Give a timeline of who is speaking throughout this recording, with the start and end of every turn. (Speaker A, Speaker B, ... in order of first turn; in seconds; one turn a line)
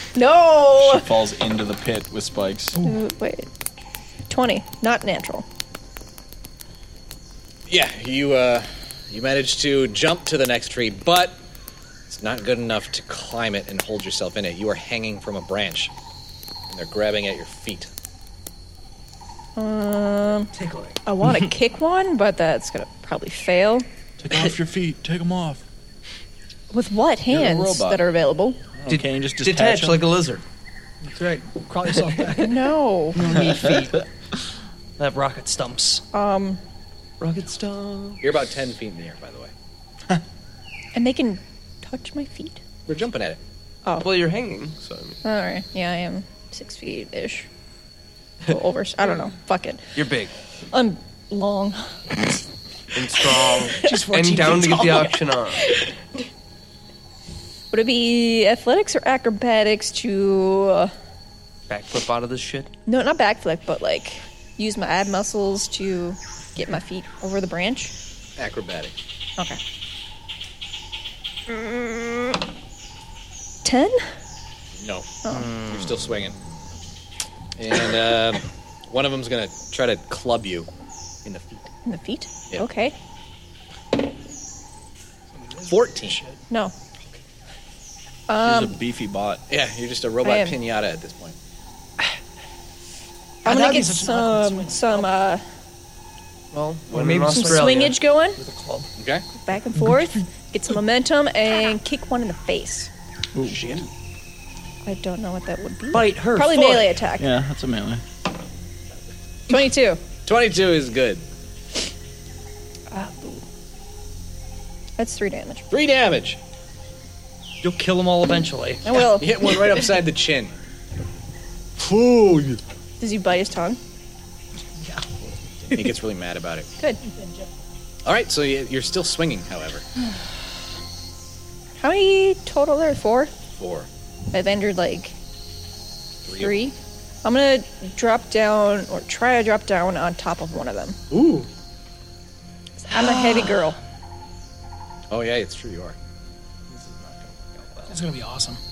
Speaker A: 0.1-1.1
Speaker B: 0.8-2.8
Speaker A: 2.8-3.5
Speaker A: 4.3-5.4
Speaker C: 7.7-11.4
Speaker C: 12.1-15.9
Speaker C: 16.7-17.9
Speaker A: 19.6-20.5
Speaker D: 20.6-20.9
Speaker A: 21.0-23.9
Speaker B: 24.2-25.6
Speaker A: 26.7-28.7
Speaker B: 27.3-28.1
Speaker B: 28.7-30.1
Speaker D: 28.9-30.4
Speaker E: 31.0-32.6
Speaker A: 32.3-33.3
Speaker F: 33.1-34.0
Speaker F: 35.0-36.0
Speaker A: 36.1-36.6
Speaker F: 37.2-38.2
Speaker C: 38.2-39.5
Speaker A: 40.9-42.6
Speaker C: 42.9-43.4
Speaker D: 44.0-45.2
Speaker A: 45.2-47.5
Speaker A: 48.5-49.9
Speaker D: 49.9-50.3
Speaker A: 50.7-51.9
Speaker D: 52.9-55.8
Speaker E: 53.8-55.2
Speaker A: 57.7-60.9
Speaker D: 61.7-62.7
Speaker A: 62.9-67.9
Speaker C: 68.4-68.9
Speaker A: 71.5-72.3
Speaker A: 73.6-74.0
Speaker C: 74.8-75.1
Speaker A: 75.2-75.5
Speaker F: 75.3-75.9
Speaker C: 75.7-76.3
Speaker C: 77.6-80.7
Speaker C: 81.2-81.7
Speaker A: 81.8-82.9
Speaker E: 85.4-86.4
Speaker C: 85.7-86.2
Speaker A: 88.3-88.8
Speaker B: 88.4-89.4
Speaker C: 89.5-91.3
Speaker A: 90.2-90.6
Speaker A: 93.4-95.4
Speaker E: 93.4-95.1
Speaker D: 96.5-98.0
Speaker F: 96.9-97.8
Speaker A: 97.3-98.4
Speaker F: 98.4-98.9
Speaker C: 99.0-99.2
Speaker A: 99.3-102.9
Speaker B: 103.3-103.8
Speaker A: 104.8-107.3
Speaker F: 105.9-106.9
Speaker B: 107.2-108.0
Speaker A: 109.5-110.0
Speaker C: 110.2-111.2
Speaker A: 112.9-113.4
Speaker A: 115.0-115.7
Speaker C: 115.7-116.4
Speaker F: 117.6-118.8
Speaker A: 118.8-119.4
Speaker C: 119.2-120.5
Speaker C: 121.8-122.6
Speaker A: 123.0-123.8
Speaker C: 125.7-126.7
Speaker C: 128.0-129.8
Speaker A: 131.8-133.3
Speaker C: 133.6-133.9
Speaker A: 134.3-135.1
Speaker C: 136.2-136.6
Speaker A: 136.3-141.0
Speaker C: 141.1-141.5
Speaker A: 142.8-143.8
Speaker F: 143.0-143.3
Speaker C: 145.1-146.0
Speaker E: 147.9-148.6